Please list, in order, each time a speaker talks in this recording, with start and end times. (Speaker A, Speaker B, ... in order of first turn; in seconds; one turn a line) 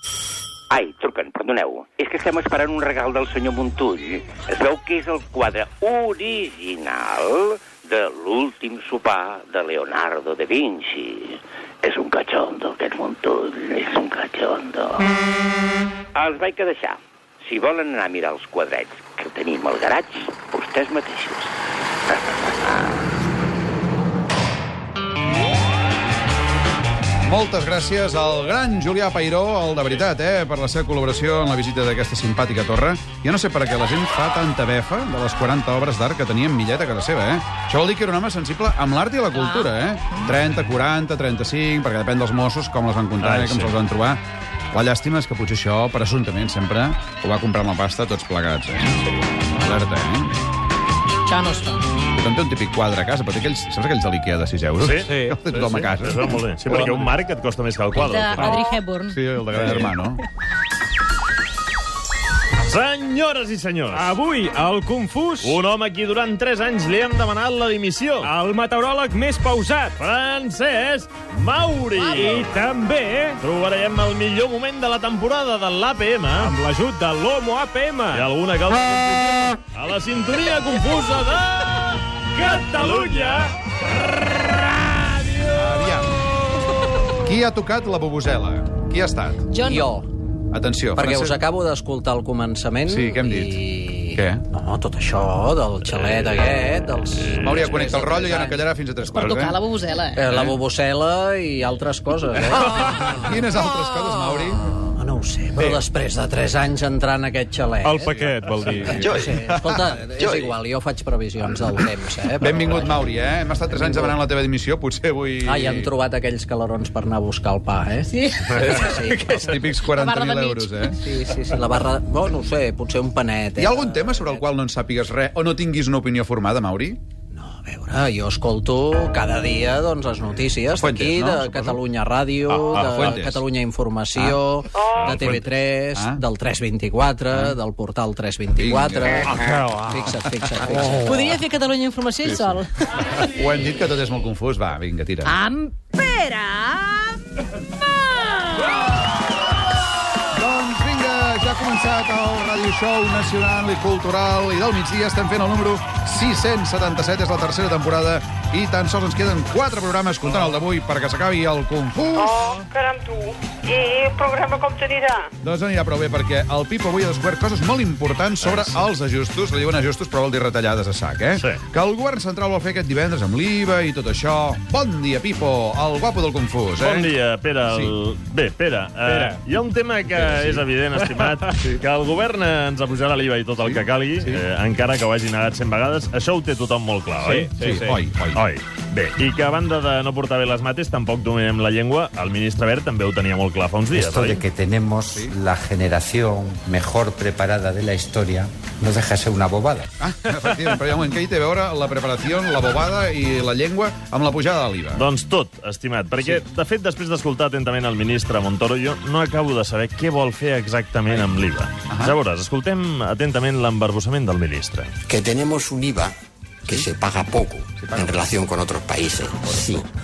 Speaker A: 0.7-15.1
Speaker A: 16.1-21.6
Speaker A: 22.1-23.1
Speaker B: 27.3-44.2
Speaker C: 43.2-43.7
Speaker B: 44.7-50.4
Speaker D: 51.3-51.8
Speaker B: 52.2-57.1
Speaker C: 54.8-58.6
Speaker E: 55.0-55.4
Speaker E: 56.7-57.0
Speaker D: 58.0-59.2
Speaker B: 58.4-60.2
Speaker C: 62.7-64.1
Speaker E: 63.9-65.6
Speaker C: 65.4-68.3
Speaker E: 68.2-70.0
Speaker C: 70.0-72.6
Speaker E: 72.2-73.4
Speaker C: 73.4-76.5
Speaker E: 76.4-78.3
Speaker C: 78.1-83.5
Speaker E: 82.4-83.5
Speaker C: 84.1-85.8
Speaker B: 85.6-86.1
Speaker B: 87.2-89.6
Speaker D: 89.5-90.0
Speaker F: 89.7-90.1
Speaker B: 90.5-91.4
Speaker F: 91.0-98.6
Speaker B: 92.9-94.4
Speaker C: 95.9-96.3
Speaker C: 97.2-97.8
Speaker B: 97.4-99.6
Speaker D: 99.1-100.2
Speaker F: 100.2-103.2
Speaker B: 100.3-100.6
Speaker B: 103.0-104.6
Speaker F: 104.8-108.2
Speaker B: 105.6-105.8
Speaker E: 107.8-109.0
Speaker F: 108.8-113.0
Speaker B: 108.9-110.0
Speaker B: 112.4-115.9
Speaker F: 113.7-114.2
Speaker F: 115.5-119.6
Speaker B: 119.3-121.0
Speaker D: 120.0-120.9
Speaker F: 121.0-124.4
Speaker B: 123.6-127.0
Speaker F: 127.3-141.3
Speaker B: 130.8-131.8
Speaker B: 132.5-133.4
Speaker B: 134.2-134.4
Speaker C: 135.0-135.3
Speaker B: 135.1-136.2
Speaker B: 137.3-137.6
Speaker B: 138.6-140.0
Speaker B: 140.6-141.2
Speaker D: 141.0-142.7
Speaker B: 142.2-142.6
Speaker B: 143.2-145.3
Speaker D: 145.2-147.0
Speaker D: 147.9-148.7
Speaker B: 150.3-162.5
Speaker G: 162.2-165.2
Speaker B: 165.4-177.1
Speaker C: 168.4-168.8
Speaker C: 176.8-187.5
Speaker B: 177.7-177.9
Speaker E: 179.0-179.4
Speaker B: 183.6-184.4
Speaker E: 187.2-188.0
Speaker B: 187.6-188.4
Speaker C: 188.3-194.4
Speaker H: 193.9-199.9
Speaker B: 195.1-195.3
Speaker B: 200.0-205.1
Speaker C: 204.9-214.9
Speaker B: 211.9-212.2
Speaker I: 215.1-216.1
Speaker I: 216.7-219.9